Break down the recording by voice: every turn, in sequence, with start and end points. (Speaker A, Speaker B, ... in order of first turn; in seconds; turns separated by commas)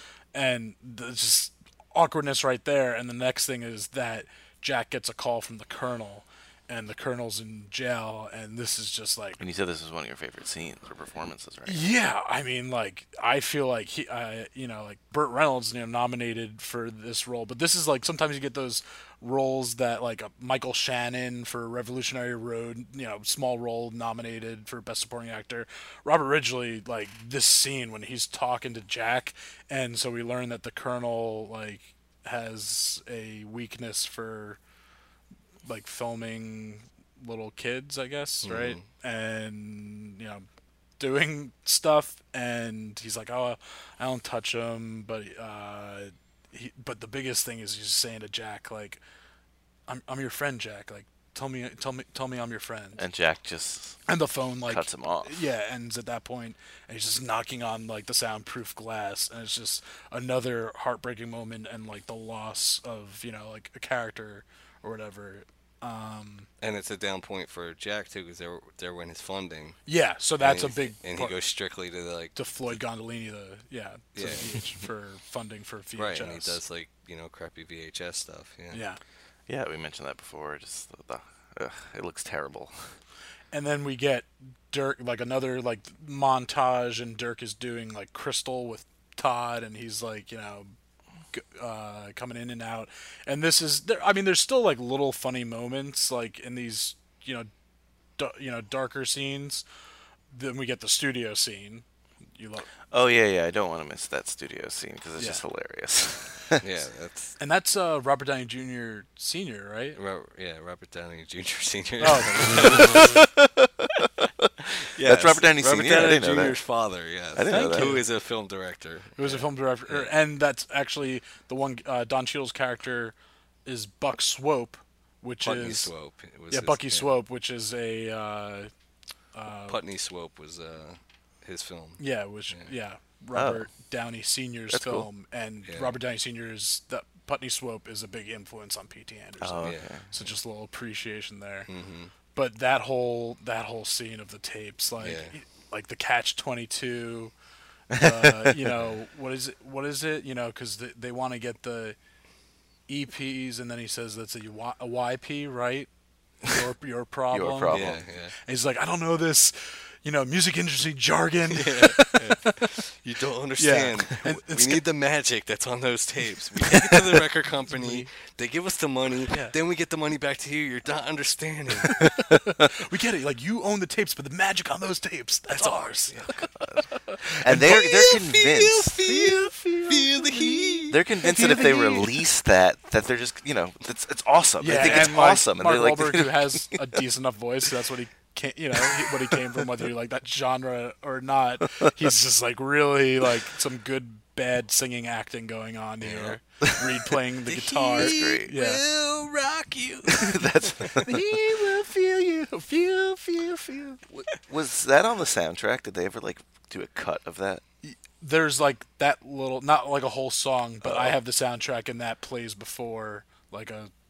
Speaker A: 0.3-9.4, Speaker B: 9.4-11.9, Speaker A: 11.7-34.6, Speaker A: 35.6-40.5, Speaker C: 38.4-38.8, Speaker A: 41.0-49.0, Speaker A: 49.9-53.0, Speaker B: 53.0-54.0, Speaker A: 54.1-66.5, Speaker B: 54.7-55.4, Speaker C: 66.6-69.8, Speaker A: 69.9-71.4, Speaker C: 70.4-72.4, Speaker A: 72.3-76.6, Speaker C: 74.2-74.6, Speaker C: 76.0-78.8, Speaker A: 78.7-79.0, Speaker B: 79.5-82.9, Speaker A: 83.5-90.7, Speaker A: 91.3-97.5, Speaker A: 98.2-99.6, Speaker A: 100.3-101.8, Speaker A: 102.4-102.7, Speaker B: 102.9-106.6, Speaker C: 106.6-107.4, Speaker A: 107.4-110.0, Speaker C: 110.0-113.2, Speaker A: 112.0-113.1, Speaker B: 112.5-116.6, Speaker C: 115.0-120.0, Speaker B: 117.3-118.0, Speaker A: 117.5-118.0, Speaker A: 119.2-123.1, Speaker A: 123.7-125.9, Speaker C: 125.4-127.1, Speaker A: 126.5-128.7, Speaker A: 129.3-129.8, Speaker C: 129.7-132.0, Speaker A: 132.0-141.7, Speaker B: 133.3-133.7, Speaker B: 134.7-135.1, Speaker C: 135.7-136.0, Speaker B: 139.4-140.1, Speaker C: 141.7-142.1, Speaker A: 142.3-147.3, Speaker C: 145.0-145.3, Speaker B: 147.9-148.6, Speaker A: 147.9-151.9, Speaker A: 152.9-155.9, Speaker A: 156.4-162.8, Speaker B: 157.3-158.0, Speaker C: 157.7-158.3, Speaker C: 161.5-171.9, Speaker A: 163.6-164.8, Speaker A: 167.7-168.1, Speaker A: 172.0-182.1, Speaker B: 172.0-172.4, Speaker C: 175.5-176.3, Speaker B: 176.3-179.5, Speaker C: 179.9-180.7, Speaker B: 180.3-187.0, Speaker A: 184.6-198.8, Speaker C: 196.1-196.3, Speaker B: 196.2-201.5, Speaker A: 200.9-204.0, Speaker B: 204.0-207.6, Speaker A: 207.8-213.9, Speaker B: 210.8-211.2